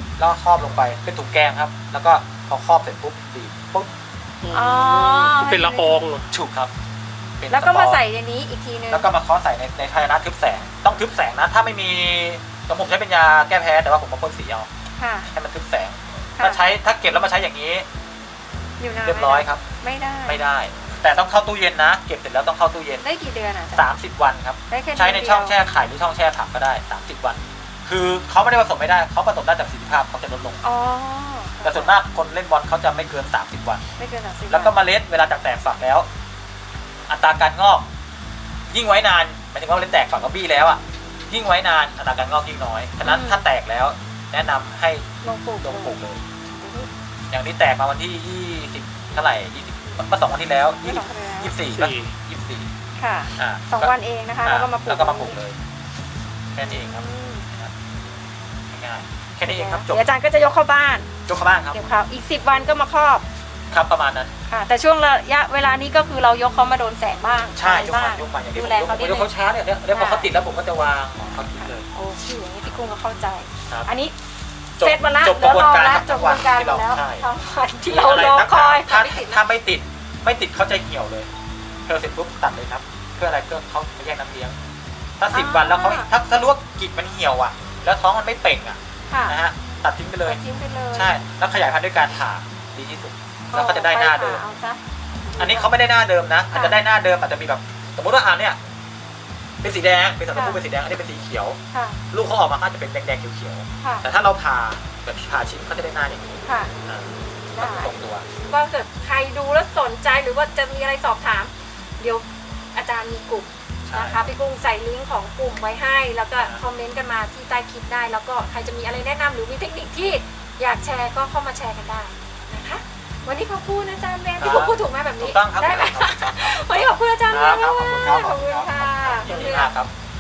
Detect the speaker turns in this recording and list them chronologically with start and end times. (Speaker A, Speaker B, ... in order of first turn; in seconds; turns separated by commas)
Speaker A: 0.2-3.9, Speaker B: 4.4-6.3, Speaker C: 4.5-6.1, Speaker A: 6.3-6.7, Speaker A: 7.4-8.0, Speaker C: 7.5-9.1, Speaker A: 8.9-14.7, Speaker C: 15.0-15.3, Speaker A: 15.3-17.9, Speaker C: 16.4-16.7, Speaker C: 18.8-20.4, Speaker A: 19.0-19.6, Speaker A: 20.3-23.0, Speaker C: 23.0-23.9, Speaker A: 23.7-30.6, Speaker C: 24.7-25.6, Speaker C: 30.6-31.9, Speaker A: 31.6-33.8, Speaker C: 34.0-34.7, Speaker A: 34.5-36.1, Speaker A: 37.1-37.9, Speaker A: 38.7-45.0, Speaker C: 43.0-43.4, Speaker C: 45.2-45.9, Speaker A: 45.6-46.2, Speaker C: 46.5-46.9, Speaker A: 47.3-52.7, Speaker C: 50.8-51.5, Speaker B: 51.7-52.1, Speaker C: 53.0-55.4, Speaker A: 53.4-53.9, Speaker A: 54.4-55.6, Speaker A: 56.5-57.7, Speaker C: 56.6-57.5, Speaker A: 58.7-60.0, Speaker C: 59.4-61.1, Speaker A: 61.3-61.8, Speaker C: 61.7-63.2, Speaker A: 63.7-64.3, Speaker C: 64.5-69.3, Speaker A: 67.5-71.8, Speaker C: 69.9-70.3, Speaker C: 71.8-74.1, Speaker A: 74.8-77.3, Speaker C: 74.8-79.4, Speaker A: 77.8-81.3, Speaker A: 81.9-84.5, Speaker A: 85.2-90.4, Speaker C: 85.3-86.1, Speaker C: 89.1-89.3, Speaker C: 90.2-91.2, Speaker A: 90.9-94.4, Speaker C: 93.5-94.8, Speaker C: 95.3-95.7, Speaker A: 95.4-98.6, Speaker C: 96.5-96.8, Speaker A: 99.6-101.6, Speaker C: 100.3-100.6, Speaker C: 101.7-102.0, Speaker A: 102.1-108.2, Speaker C: 106.4-106.7, Speaker C: 107.5-107.9, Speaker C: 108.5-129.7, Speaker A: 113.9-114.3, Speaker A: 124.4-126.7, Speaker A: 127.3-129.9